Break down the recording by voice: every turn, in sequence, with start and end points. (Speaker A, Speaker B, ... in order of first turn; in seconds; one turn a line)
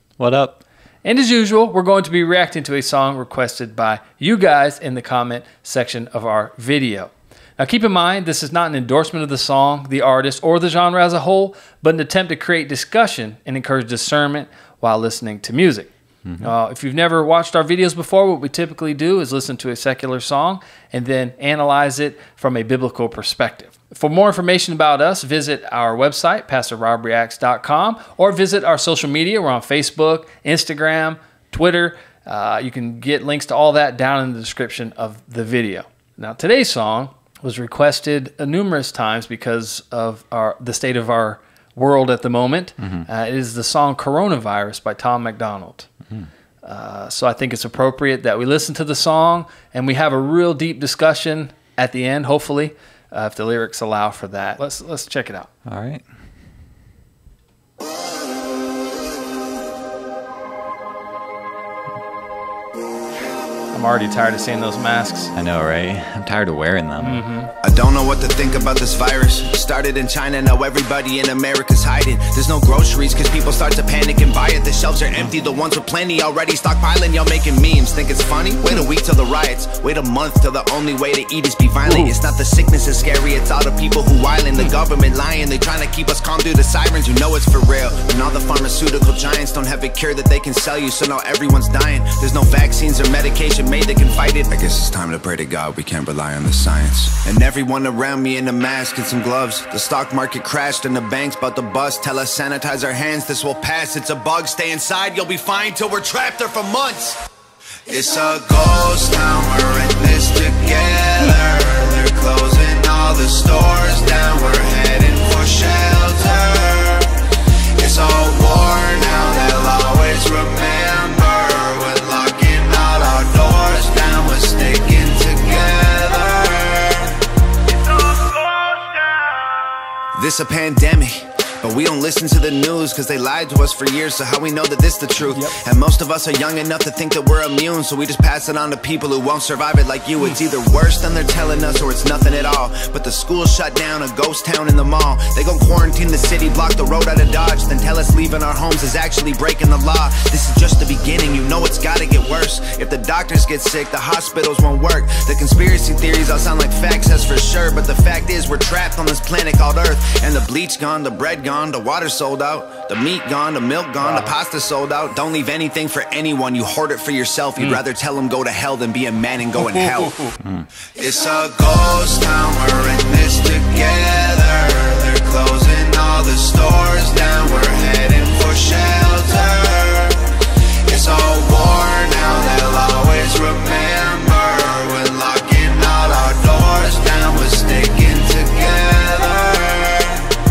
Speaker A: 0.2-0.6
Speaker B: 1.0-45.9
Speaker B: 46.6-55.5
Speaker A: 55.6-56.0
Speaker B: 63.7-65.3
Speaker A: 65.3-67.2
Speaker B: 67.0-67.5
Speaker C: 67.6-107.2
Speaker B: 81.8-82.1
Speaker C: 107.9-117.2
Speaker C: 117.8-127.2
Speaker C: 130.1-170.2
Speaker B: 135.3-135.6
Speaker B: 164.0-164.3
Speaker B: 167.6-167.8
Speaker B: 169.6-170.3
Speaker C: 170.9-190.3